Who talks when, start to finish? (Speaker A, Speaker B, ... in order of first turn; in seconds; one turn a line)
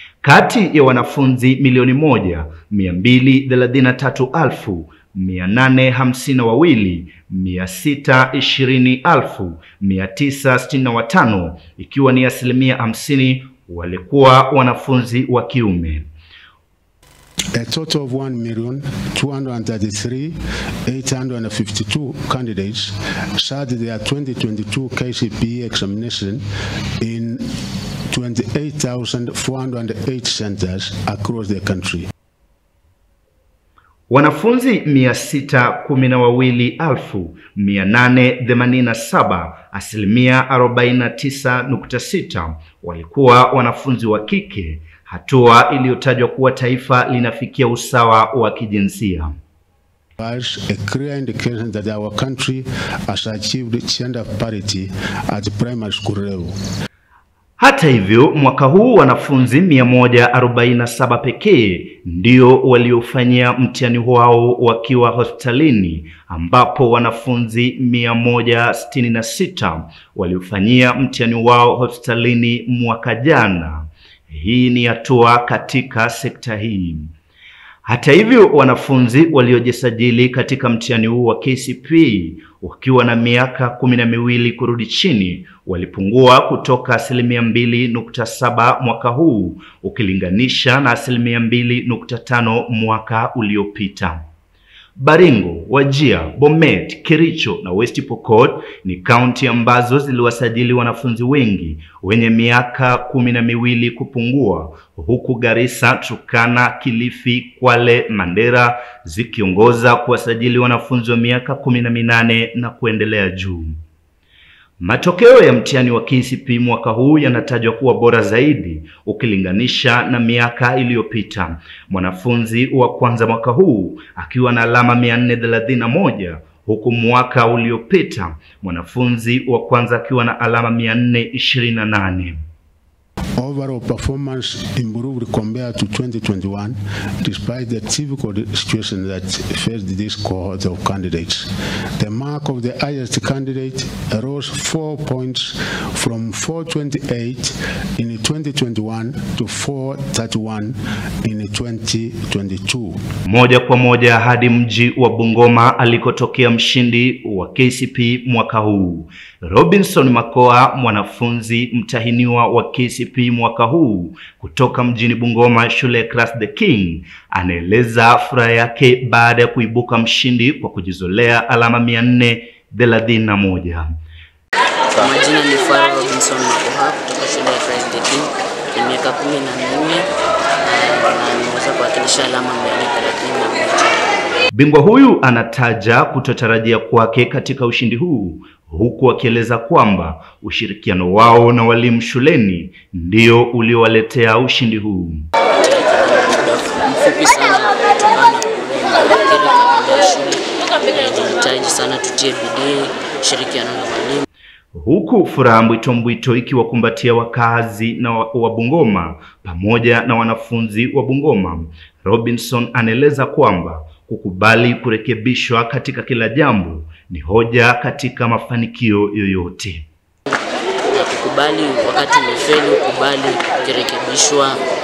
Speaker A: 0.2-16.1
Speaker B: 17.6-20.3
Speaker B: 20.9-26.4
Speaker B: 27.0-27.4
Speaker B: 28.1-32.1
Speaker A: 34.1-49.3
Speaker B: 50.2-56.5
Speaker A: 57.6-77.1
Speaker A: 77.8-94.2
Speaker A: 95.0-113.7
Speaker A: 114.8-132.4
Speaker B: 133.4-141.5
Speaker B: 142.0-153.0
Speaker A: 153.2-173.9
Speaker C: 174.9-180.1
Speaker C: 180.6-184.4
Speaker A: 184.5-195.2
Speaker C: 195.6-204.2
Speaker A: 204.7-219.8
Speaker C: 220.9-224.6